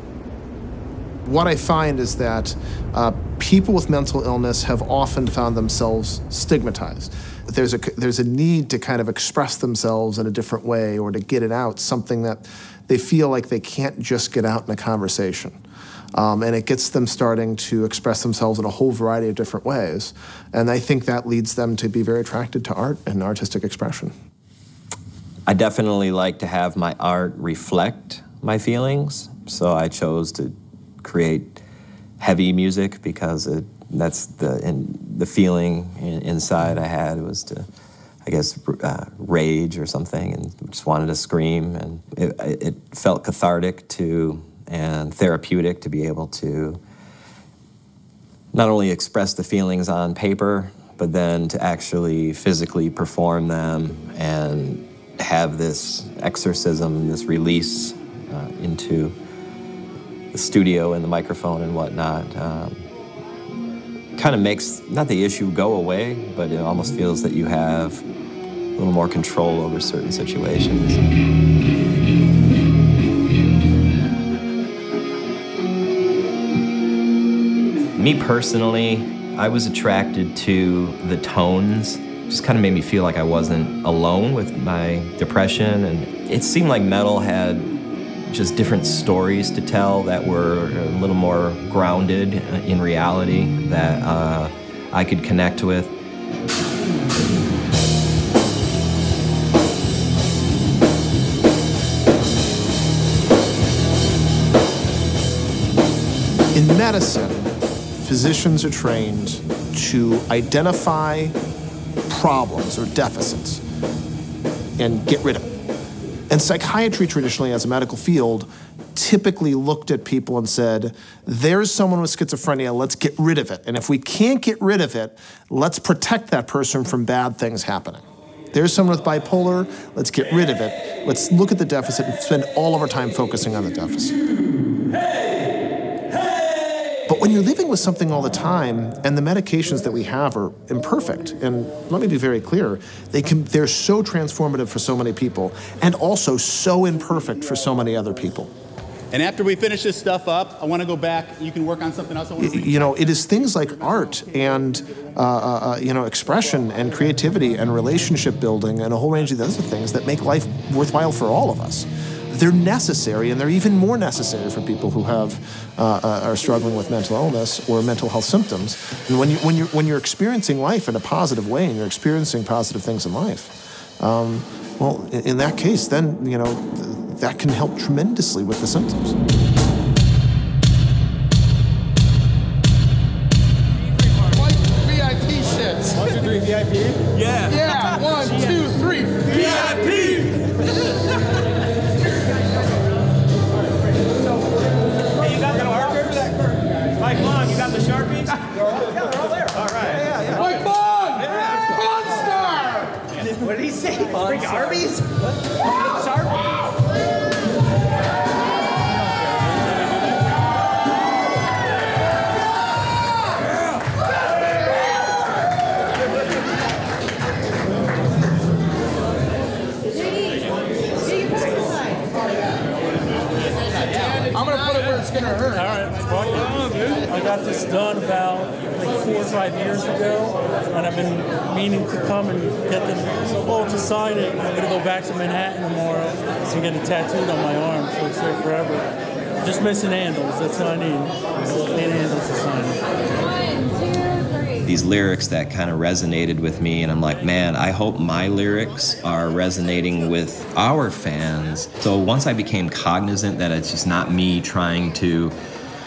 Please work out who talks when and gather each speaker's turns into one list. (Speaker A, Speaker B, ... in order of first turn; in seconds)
Speaker A: 1.2-15.6, 16.1-24.1, 106.5-111.4, 112.1-113.6, 114.8-115.5, 116.3-134.2, 137.1-148.5, 152.4-179.2
Speaker B: 25.5-31.6, 32.2-37.7, 38.2-46.8, 48.5-59.1, 60.3-62.8, 64.2-68.0, 68.8-71.0, 78.0-87.7, 88.3-95.9, 244.6-255.4
Speaker C: 149.1-152.8, 195.2-201.7, 203.2-205.2, 205.8-206.3
Speaker D: 184.3-186.4, 187.3-190.1, 200.3-202.6, 223.8-225.7
Speaker E: 225.5-242.8